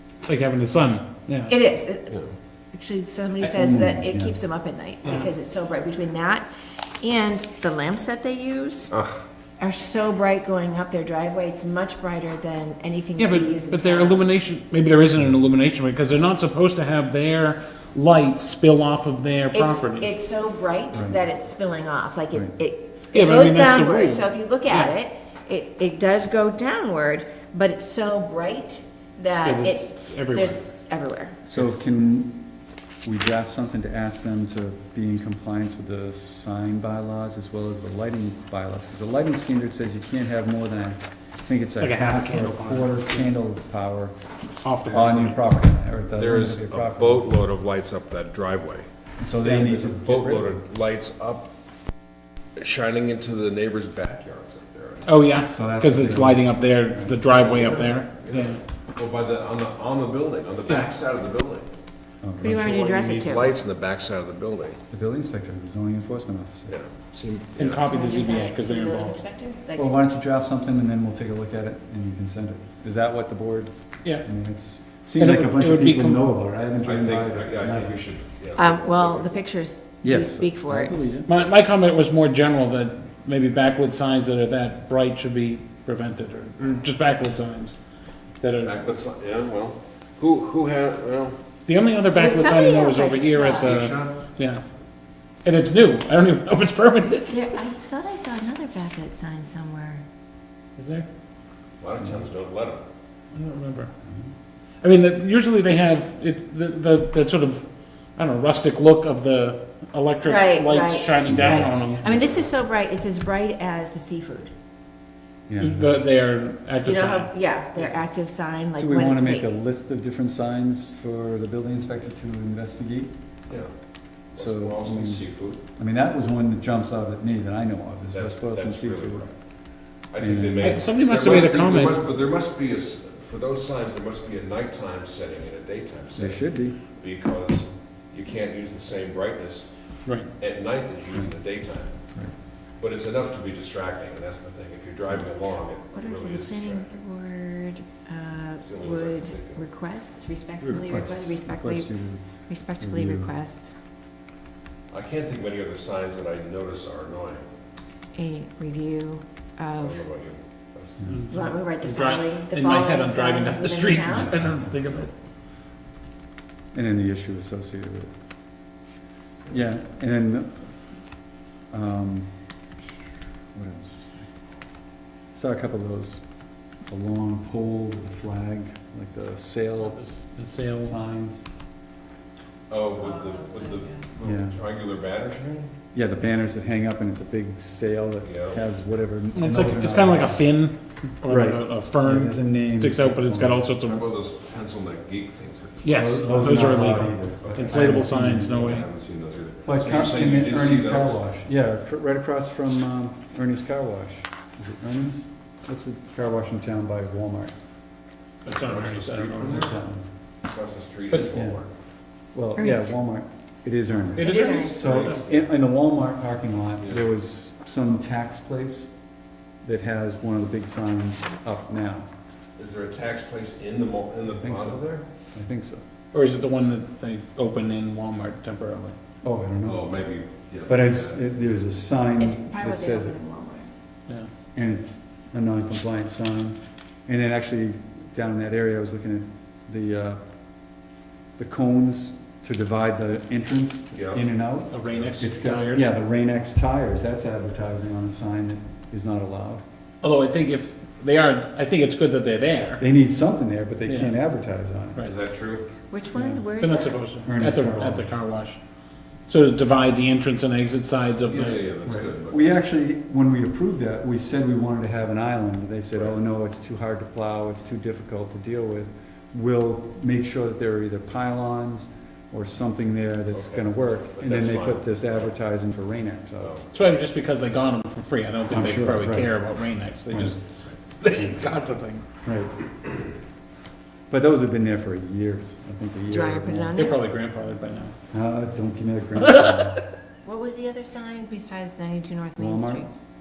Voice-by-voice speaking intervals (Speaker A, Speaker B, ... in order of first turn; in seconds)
Speaker A: 0.2-1.5, 13.2-20.1, 23.1-24.9, 29.4-30.6, 31.5-31.8, 41.8-43.3, 44.6-45.4, 55.0-58.6, 60.7-60.9, 67.6-69.2, 75.2-76.3, 81.2-87.7, 88.4-88.8, 91.7-94.6, 95.4-97.4, 100.8-101.1, 103.3-103.9, 104.8-107.6, 108.2-112.2, 115.6-117.3, 130.6-132.0, 161.1-165.1, 180.0-180.9, 189.3-194.0, 195.8-198.9, 208.4-209.7, 214.2-215.2, 226.1-228.9, 244.7-245.9, 250.0-252.8, 253.9-254.2, 256.6-258.6, 259.3-261.6, 276.7-280.4, 281.0-282.0, 286.8-287.9
Speaker B: 1.5-2.2, 2.7-6.5, 7.0-8.9, 9.6-14.2, 19.5-31.4, 62.4-63.6, 67.8-69.9, 78.6-81.0, 92.1-93.8, 97.3-100.0, 110.2-114.5, 116.8-119.5, 145.9-151.9, 152.5-153.7, 158.2-160.1, 161.3-164.4, 212.6-212.9, 214.2-214.8, 232.2-233.7, 255.9-257.0, 286.1-287.0, 290.2-292.9
Speaker C: 3.4-4.3, 31.4-32.5, 33.0-44.1, 44.9-47.3, 49.2-50.5, 55.5-57.2, 62.2-62.7, 64.9-66.8, 69.8-78.0, 80.0-81.3, 111.3-111.8, 115.5-116.0, 118.8-123.1, 124.4-125.2, 125.8-129.3, 130.2-130.8, 136.2-136.8, 150.6-152.2, 152.8-153.3, 161.0-161.2, 164.1-165.0, 166.7-168.1, 169.5-170.7, 171.7-172.3, 173.5-174.3, 175.3-176.2, 176.9-180.1, 180.8-181.4, 184.2-184.6, 185.9-190.4, 191.3-193.7, 195.9-198.8, 199.7-207.5, 209.4-210.1, 211.3-211.6, 212.3-218.9, 219.6-222.1, 224.4-225.8, 229.2-230.0, 230.7-233.2, 234.6-240.2, 241.4-249.6, 252.8-255.0, 256.1-256.5, 257.3-258.1, 261.8-276.5, 278.5-279.3, 280.1-280.4, 281.1-281.4, 282.2-282.5, 284.1-286.8, 288.1-289.8, 292.4-292.9
Speaker D: 8.9-9.2, 44.9-45.3, 46.2-48.9, 49.4-51.5, 52.6-55.1, 57.2-61.7, 62.5-64.8, 66.7-67.9, 76.8-79.4, 88.6-91.4, 93.4-94.2, 101.8-102.8, 124.3-125.6, 128.1-129.3, 130.1-136.4, 136.9-139.7, 140.4-142.0, 142.8-146.9, 148.6-149.7, 154.9-157.4, 159.8-161.0, 182.7-185.7, 188.2-188.6, 193.8-196.7, 197.5-201.2, 208.5-209.7, 210.4-211.7, 214.4-215.5, 216.8-217.1, 222.6-225.0, 229.7-231.2, 243.9-244.3, 244.9-245.2, 255.0-255.7, 261.3-262.6, 273.3-275.1, 276.4-276.7